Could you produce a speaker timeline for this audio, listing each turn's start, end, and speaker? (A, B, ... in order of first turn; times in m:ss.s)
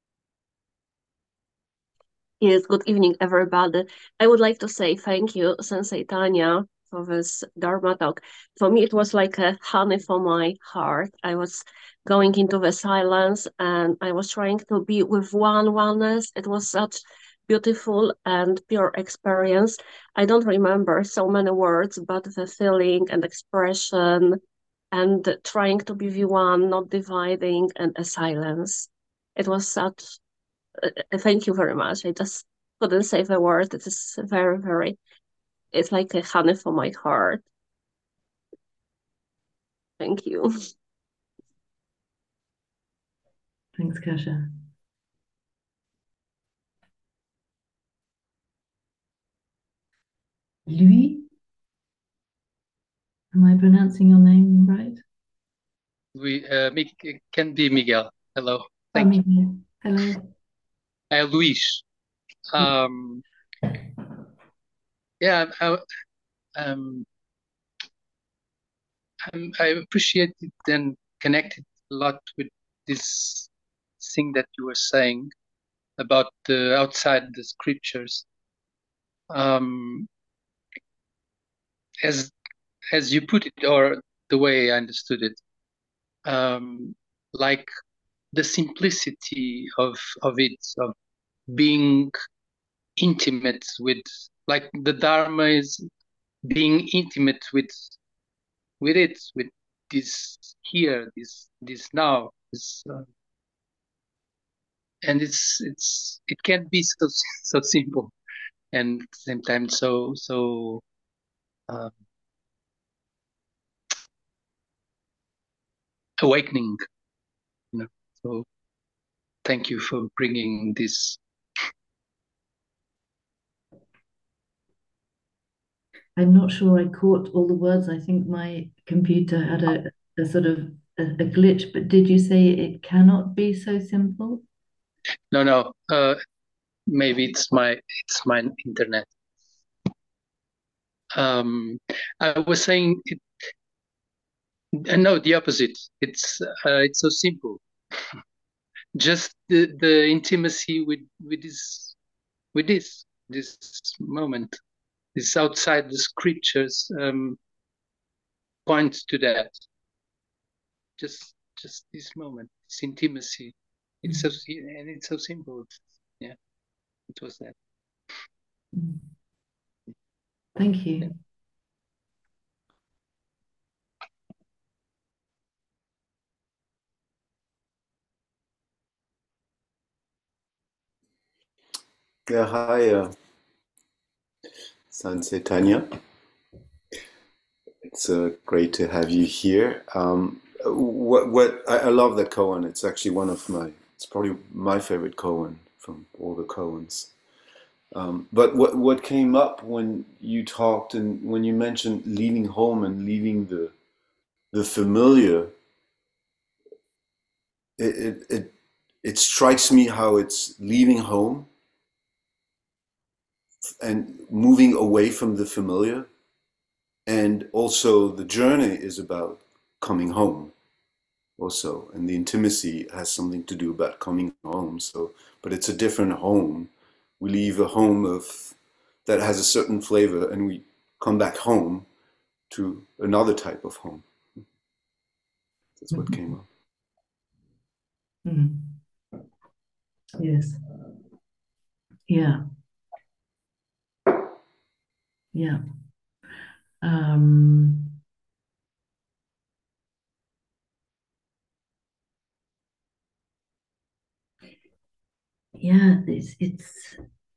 0:02.4-0:24.4 A
0:24.9-0:30.2 A
0:30.8-0:35.0 A
0:35.7-0:37.4 A
0:40.0-0:40.7 A
0:43.8-0:44.6 B
0:50.7-0:51.3 B
0:53.3-0:55.0 B
0:56.1-0:59.1 C
0:58.9-1:00.3 B
1:01.1-1:01.8 C
1:02.5-1:03.2 C
1:05.2-1:05.8 C
1:06.6-1:07.0 C
1:09.3-1:15.3 C
1:16.0-1:18.2 C
1:19.3-1:20.1 C
1:22.0-1:22.3 C
1:22.9-1:25.4 C
1:26.2-1:27.7 C
1:28.3-1:30.9 C
1:31.5-1:32.1 C
1:33.0-1:35.8 C
1:36.4-1:38.0 C
1:38.8-1:43.0 C
1:45.0-1:48.1 C
1:48.7-1:50.8 C
1:56.2-1:56.8 C
1:57.7-1:58.4 C
1:59.4-2:01.2 C
2:06.2-2:14.4 B
2:15.3-2:16.2 C
2:16.9-2:19.1 C
2:21.1-2:23.2 C
2:24.8-2:27.6 C
2:28.9-2:32.0 C
2:32.5-2:34.6 C
2:35.1-2:37.4 C
2:38.6-2:39.6 C
2:41.0-2:46.4 C
2:47.1-2:47.5 C
2:48.7-2:49.0 B
2:50.6-2:51.2 B
3:02.3-3:03.1 D
3:04.9-3:06.0 D
3:07.8-3:17.1 D
3:17.9-3:23.7 D
3:24.5-3:25.5 D
3:27.8-3:31.5 D
3:33.6-3:36.1 D
3:37.0-3:40.5 D
3:41.4-3:51.9 D
3:52.5-3:54.1 D
3:55.8-3:56.4 D
3:55.9-3:56.2 B
3:58.2-3:58.8 B
4:00.2-4:00.6 B
4:02.1-4:02.4 B
4:05.3-4:05.6 B
4:06.8-4:08.0 B
4:15.6-4:17.0 B